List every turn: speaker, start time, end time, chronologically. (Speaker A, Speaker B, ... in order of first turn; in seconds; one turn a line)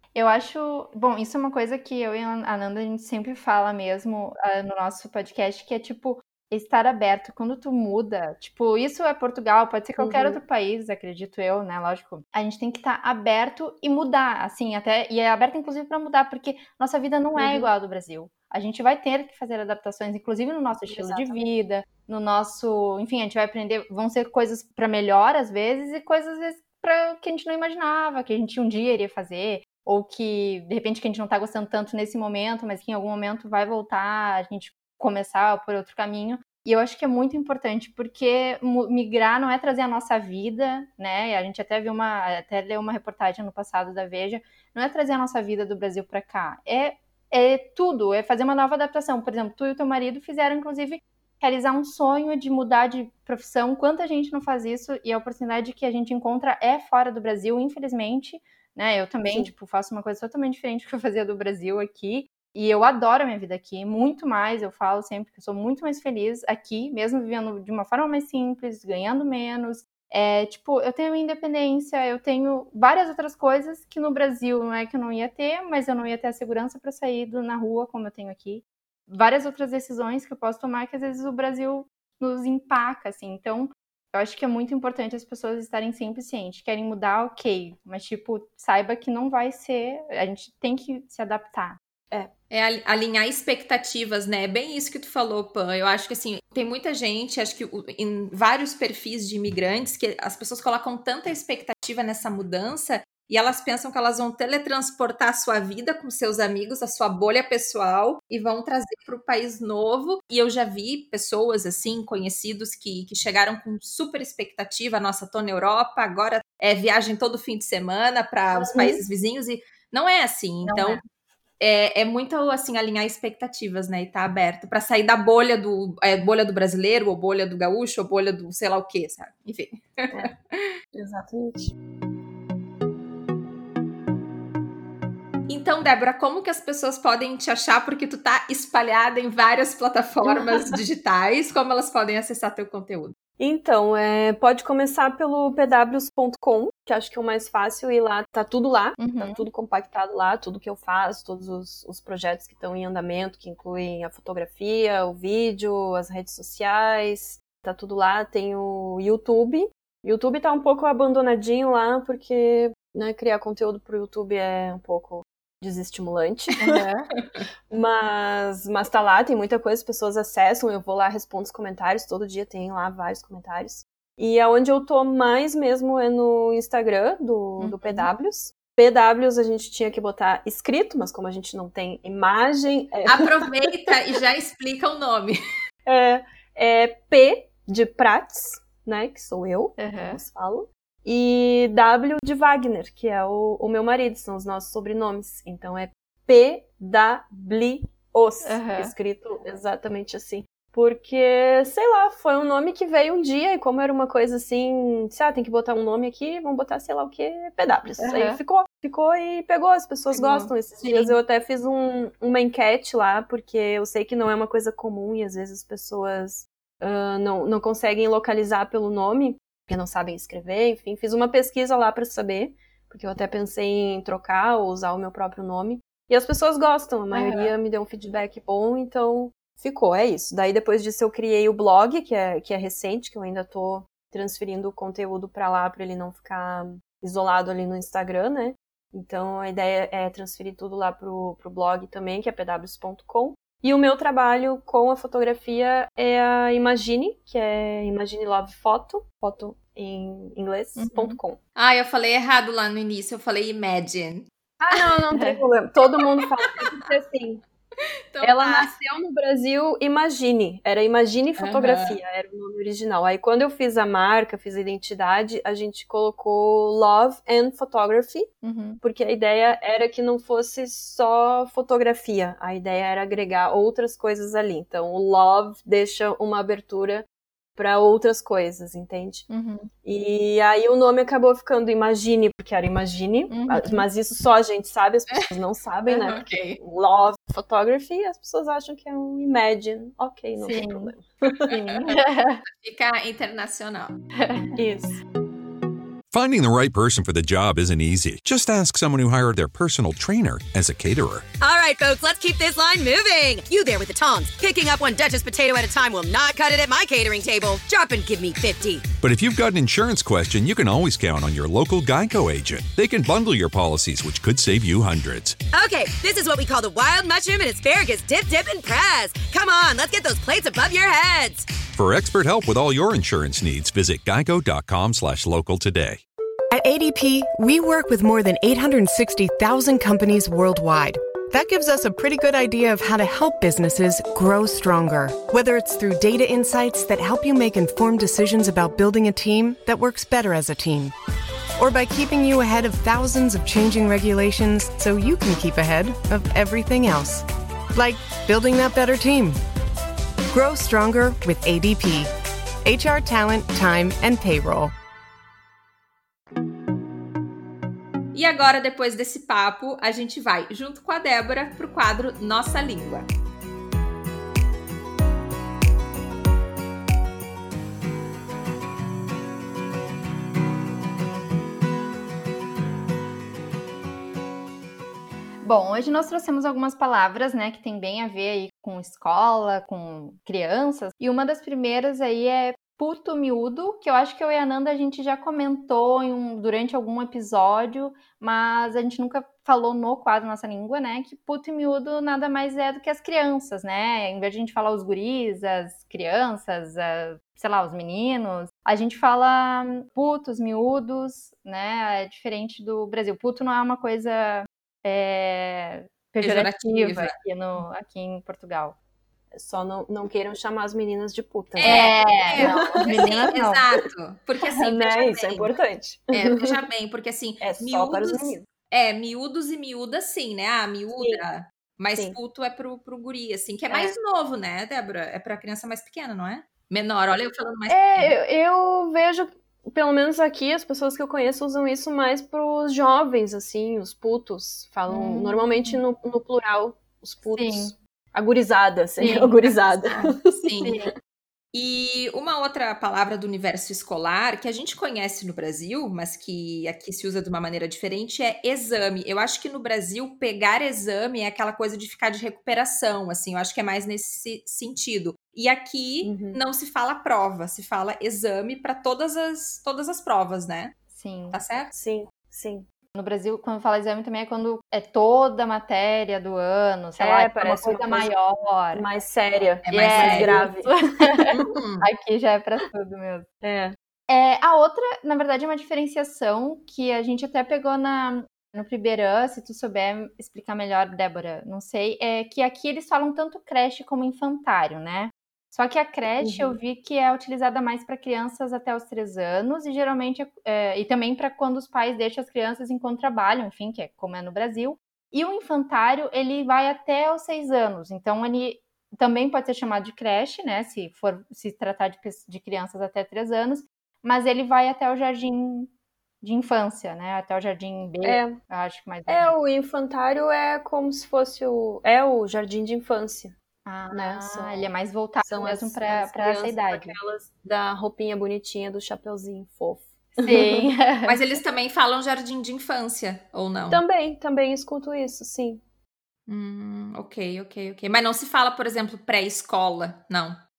Speaker A: 0.1-91.8
Speaker B: 10.0-10.4
Speaker B: 17.4-17.7
Speaker B: 20.9-21.5
Speaker B: 59.3-59.5
Speaker C: 92.5-121.0
Speaker B: 118.5-119.0
Speaker A: 120.7-121.0
Speaker C: 121.6-130.7
Speaker B: 130.9-131.7
Speaker C: 135.5-143.1
Speaker B: 140.2-140.8
Speaker B: 143.4-166.8
Speaker A: 149.0-149.4
Speaker A: 166.6-167.1
Speaker B: 167.7-183.5
Speaker A: 177.6-178.1
Speaker C: 183.1-185.4
Speaker B: 185.9-251.4
Speaker A: 189.8-190.2
Speaker A: 198.4-198.9
Speaker A: 208.0-208.4
Speaker A: 210.1-211.2
Speaker A: 227.1-227.5
Speaker A: 250.8-251.2
Speaker C: 251.6-254.3
Speaker B: 254.6-257.4
Speaker A: 255.1-255.4
Speaker C: 258.1-258.7
Speaker B: 258.2-268.3
Speaker C: 261.4-262.0
Speaker A: 268.4-268.8
Speaker B: 268.8-279.3
Speaker A: 279.3-279.7
Speaker B: 279.8-291.9
Speaker A: 283.3-283.8
Speaker C: 285.9-286.6
Speaker A: 290.4-290.9
Speaker C: 291.5-291.9
Speaker A: 291.9-292.4
Speaker C: 292.6-294.0
Speaker A: 294.2-294.5
Speaker B: 294.6-295.0
Speaker D: 296.1-301.3
Speaker E: 301.4-308.9
Speaker D: 309.0-315.4
Speaker E: 315.5-321.6
Speaker D: 321.7-326.0
Speaker F: 326.5-340.9
Speaker F: 341.6-349.4
Speaker F: 350.3-352.1
Speaker F: 352.6-354.7
Speaker C: 358.1-363.1
Speaker A: 375.4-408.7
Speaker C: 406.2-407.1
Speaker B: 409.3-412.9
Speaker C: 411.6-415.5
Speaker A: 411.6-413.6
Speaker B: 414.4-416.6
Speaker C: 416.1-428.1
Speaker B: 417.4-418.4
Speaker B: 421.0-421.2
Speaker B: 423.7-423.9
Speaker B: 427.7-440.8
Speaker A: 434.9-435.8
Speaker A: 437.3-437.7
Speaker A: 439.0-439.3
Speaker C: 439.8-440.7
Speaker A: 440.6-440.9
Speaker C: 441.5-460.7
Speaker B: 456.0-456.4
Speaker A: 460.9-461.4
Speaker C: 461.3-461.7
Speaker B: 461.7-462.6
Speaker A: 462.9-468.8
Speaker B: 467.0-468.1
Speaker B: 468.7-470.7
Speaker A: 469.7-473.2
Speaker C: 469.7-470.4
Speaker C: 471.4-471.9
Speaker B: 473.4-473.8
Speaker A: 474.1-505.7
Speaker B: 486.2-486.5
Speaker A: 506.2-509.3
Speaker B: 508.0-508.4
Speaker B: 509.1-513.3
Speaker A: 513.6-517.0
Speaker B: 513.9-514.7
Speaker B: 515.2-520.7
Speaker A: 520.2-521.1
Speaker C: 521.0-523.8
Speaker B: 523.7-525.6
Speaker C: 526.3-530.4